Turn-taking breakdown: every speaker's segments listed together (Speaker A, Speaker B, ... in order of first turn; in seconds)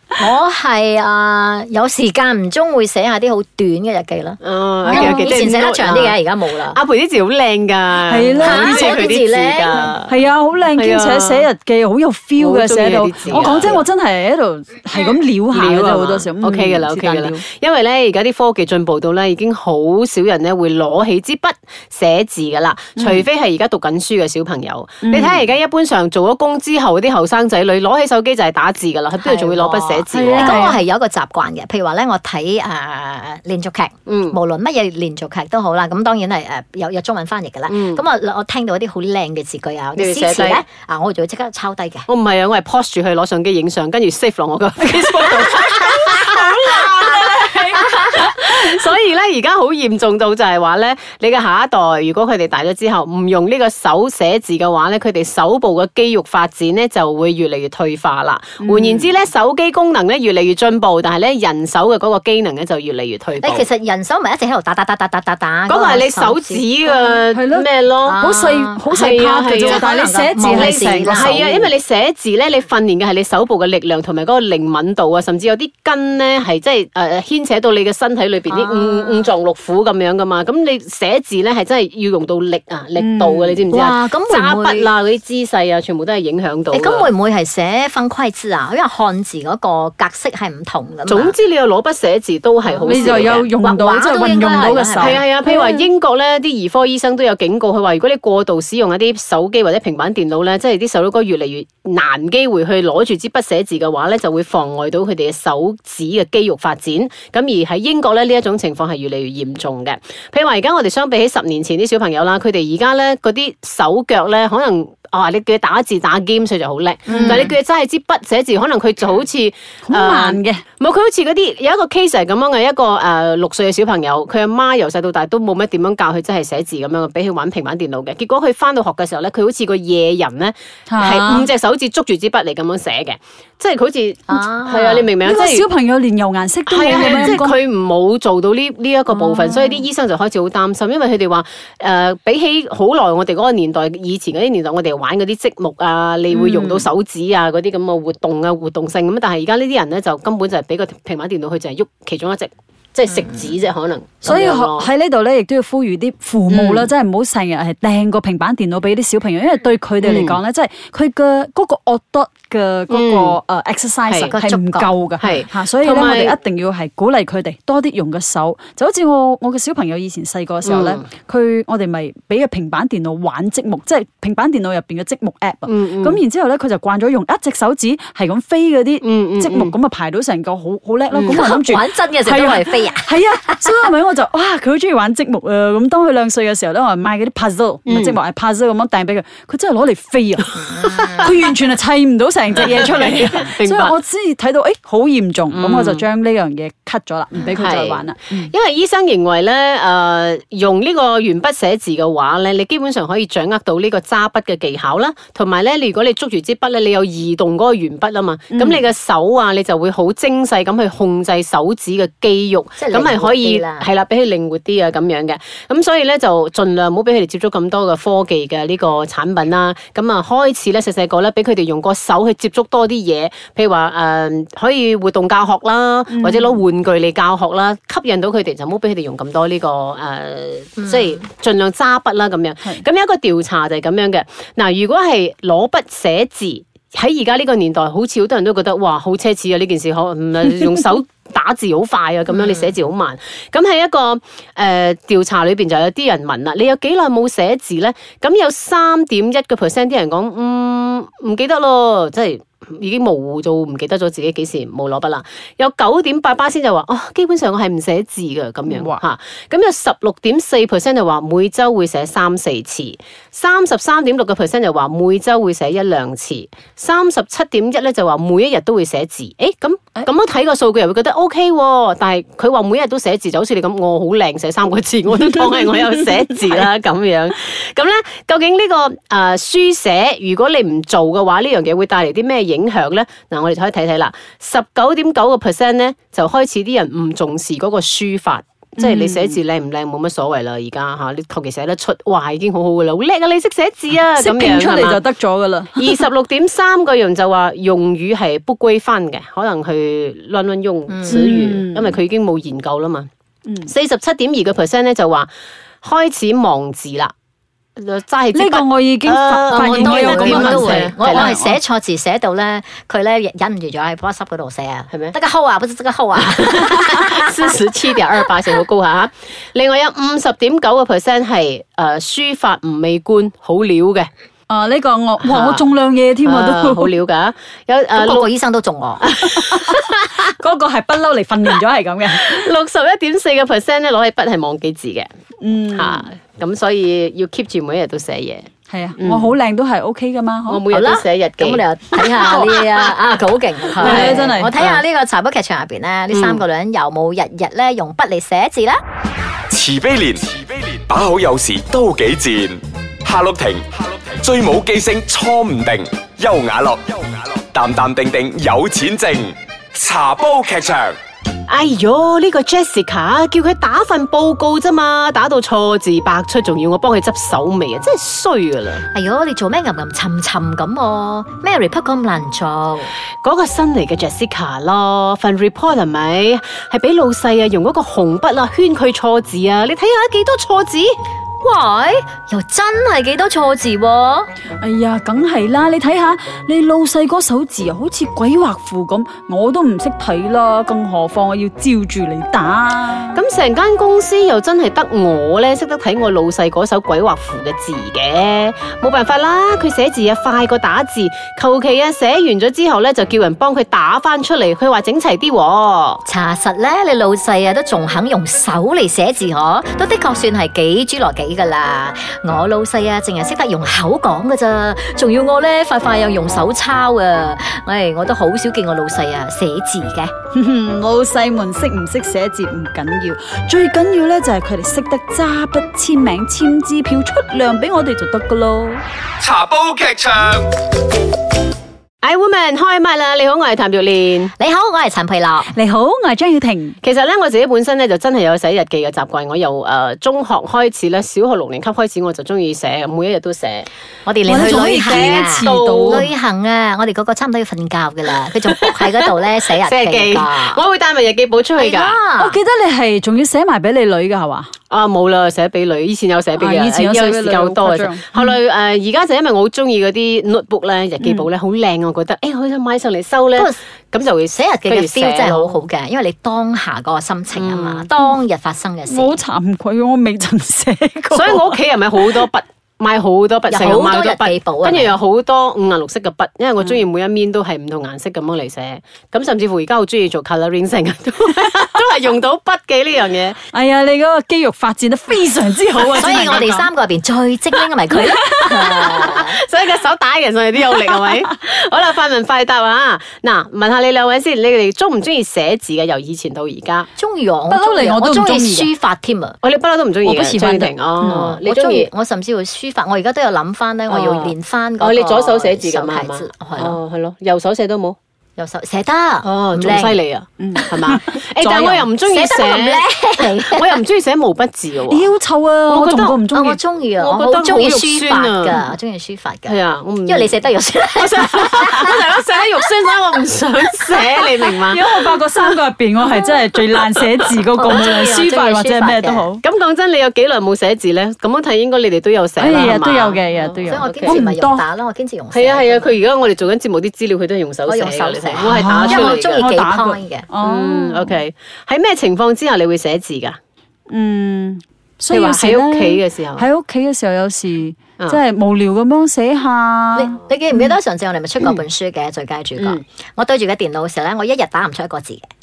Speaker A: 0.2-6.8, 8.4-9.9, 13.4-13.8, 29.2-42.1, 63.4-67.1, 68.0-71.7, 78.5-79.3, 83.7-84.9, 86.7-91.3, 92.7-95.2, 117.1-117.5, 134.3-135.1, 164.3-164.9, 181.3-183.7, 190.6-191.3, 212.8-213.9, 300.9-301.2, 309.5-317.5, 328.0-329.1, 340.7-348.8, 368.9-372.9, 381.4-384.3, 406.1-420.1, 434.4-435.6, 444.1-450.6, 451.6-452.4, 463.4-463.6, 464.3-469.2, 473.5-474.9, 486.0-489.4, 497.0-499.4, 501.1-506.8, 508.4-510.0, 512.1-513.8, 516.3-521.9, 527.5-529.3, 533.7-536.0, 537.7-540.3, 550.0-555.2
Speaker B: 4.4-6.2, 6.7-10.2, 10.7-11.5, 12.4-13.8, 15.5-30.7, 34.1-34.4, 37.7-38.0, 40.0-40.6, 42.1-63.7, 65.7-68.2, 68.9-87.1, 91.1-93.5, 95.0-135.7, 136.7-154.9, 156.5-156.9, 160.0-160.4, 162.9-163.4, 164.1-164.3, 165.2-166.4, 170.6-171.1, 175.7-176.2, 179.0-179.7, 181.1-181.5, 187.9-188.2, 192.6-194.0, 195.5-196.1, 197.6-295.1, 295.8-303.1, 303.7-305.3, 305.8-307.1, 307.8-311.4, 316.4-324.1, 325.2-325.7, 326.2-328.3, 329.0-330.2, 332.1-335.1, 335.8-339.4, 340.5-341.6, 343.8-344.8, 346.1-346.4, 361.5-368.9, 373.2-381.0, 393.1-406.0, 432.0-434.3, 436.8-443.7, 444.4-446.1, 449.6-452.0, 454.7-465.6, 467.4-467.9, 471.1-483.4, 488.9-496.9, 499.4-501.9, 503.9-508.0, 509.2-515.1, 515.7-516.2, 517.0-518.8, 519.5-527.4, 529.4-534.2, 535.3-539.5, 540.4-543.4, 545.1-546.5
Speaker C: 4.8-5.3, 8.1-9.0, 10.1-17.4, 23.0-23.3, 25.0-25.5, 30.1-30.8, 58.6-59.1, 67.3-71.4, 83.0-83.6, 92.8-95.9, 117.1-117.5, 119.8-120.6, 130.9-131.5, 135.2-137.6, 139.1-139.8, 146.3-146.9, 154.2-190.6, 191.1-198.5, 208.5-208.8, 226.1-226.6, 258.7-259.0, 288.8-289.3, 294.1-296.0, 301.1-302.0, 308.3-311.6, 324.5-327.0, 329.4-332.4, 335.4-336.1, 338.7-340.6, 343.8-344.5, 384.6-393.2, 420.3-428.8, 435.5-436.8, 444.3-446.1, 452.2-454.5, 456.4-458.3, 461.0-461.3, 468.9-471.6, 483.5-486.7, 487.9-489.2, 497.5-498.7, 500.0-501.4, 510.4-511.9, 514.9-516.6, 524.6-529.4, 532.4-534.6, 538.4-541.2, 543.9-550.2
Speaker D: 349.5-361.0, 429.2-430.4